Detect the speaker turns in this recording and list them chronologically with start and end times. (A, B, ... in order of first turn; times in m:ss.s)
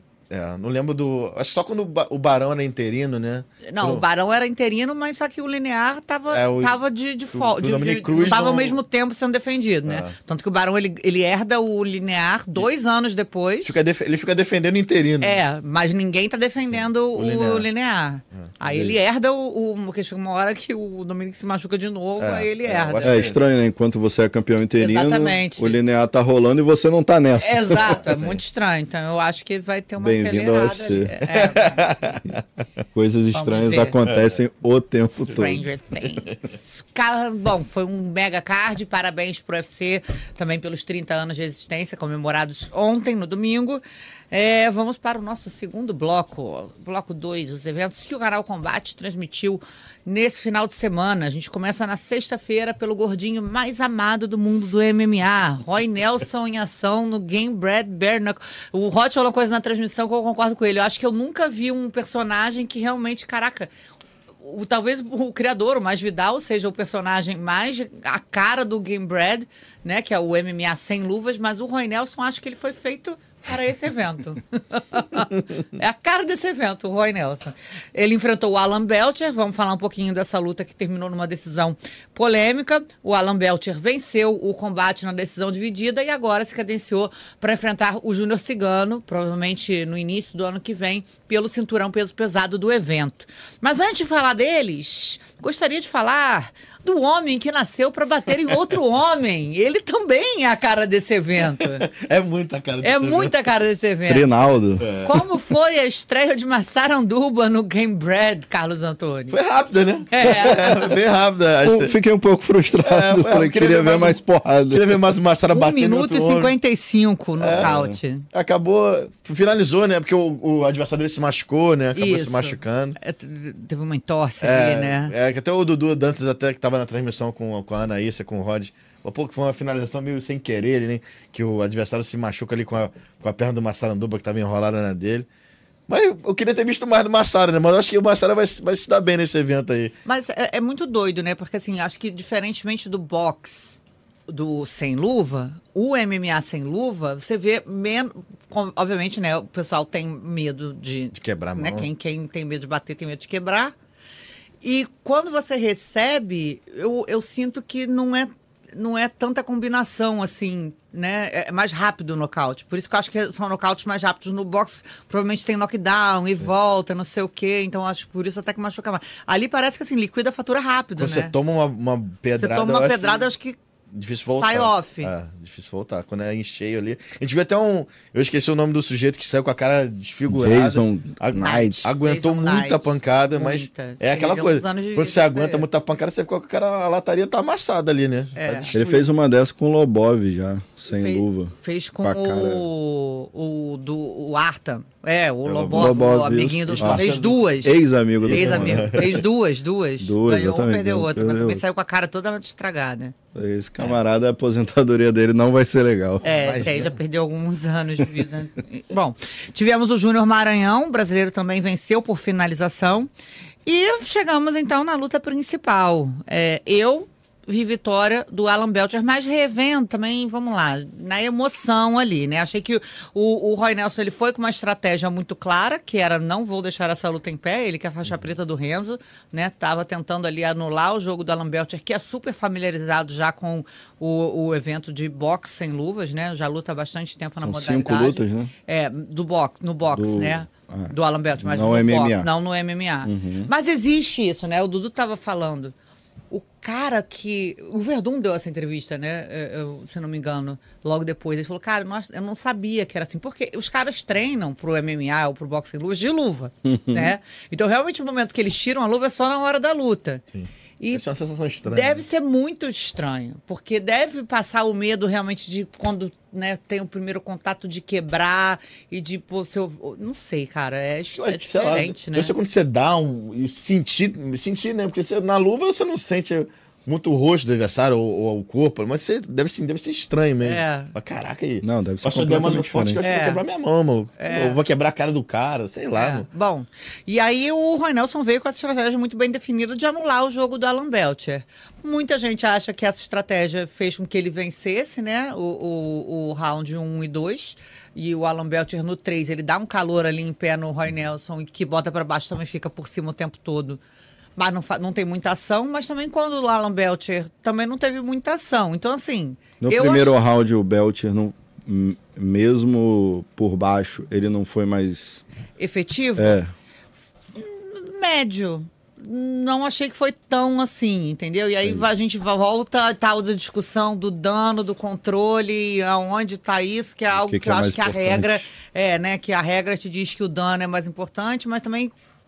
0:00.3-0:04.0 A
0:03.6-0:13.8 B
0:06.3-0:06.8 A
0:07.3-0:08.8 A
0:09.8-0:10.1 A
0:13.6-0:15.4 A
0:15.2-0:23.1 B
0:16.7-0:17.7 A
0:18.6-0:19.0 A
0:22.2-0:23.4 A
0:23.0-0:28.0 C
0:24.8-0:25.8 B
0:27.4-0:31.8 B
0:27.9-0:28.4 A
0:30.0-0:31.2 C
0:31.3-0:32.4 A
0:32.9-0:35.6 C
0:33.3-0:34.0 B
0:34.0-0:34.3 A
0:35.1-1:03.7 B
1:04.4-1:41.9 B
1:41.6-1:43.4 A
1:42.8-1:44.2 B
1:44.1-1:44.9 C
1:44.8-1:45.2 A
1:45.0-1:49.4 B
1:49.3-1:51.9 A
1:50.1-1:50.7 B
1:51.6-1:55.0 C
1:52.8-1:56.5 A
1:55.5-1:58.2 B
1:57.4-1:57.7 A
1:57.6-1:57.9 C
1:58.3-2:03.0 A
2:02.0-2:05.1 B
2:04.4-2:15.2 A
2:15.9-2:19.9 A
2:20.0-2:33.7 B
2:31.1-2:31.9 A
2:34.6-2:51.3 B
2:51.0-2:53.3 A
2:52.4-2:53.6 B
2:53.9-3:09.1 A
2:54.3-2:55.1 B
3:00.3-3:01.7 C
3:01.4-3:05.6 B
3:08.4-3:08.8 B
3:08.7-3:12.7 C
3:10.9-3:17.8 B
3:15.4-3:19.1 C
3:15.7-3:16.0 A
3:16.7-3:17.4 A
3:18.2-3:19.2 A
3:18.3-3:23.1 B
3:20.0-3:21.6 C
3:23.3-3:26.4 C
3:26.2-3:33.1 B
3:26.3-3:26.9 A
3:33.6-4:05.7 B
3:57.4-3:58.5 C
3:59.9-4:02.3 C
4:03.0-4:03.5 C
4:06.3-4:20.2 B
4:16.6-4:17.1 C
4:20.3-4:22.0 A
4:21.6-4:32.3 B
4:31.2-4:46.2 A
4:40.4-4:40.9 B
4:41.6-4:43.0 C
4:43.0-4:43.4 B
4:44.2-4:44.6 B
4:45.9-5:03.8 B
5:04.4-5:10.1 B
5:09.6-5:15.2 C
5:15.6-5:16.4 B
5:16.2-5:16.5 C
5:17.3-5:31.9 B
5:27.1-5:28.5 C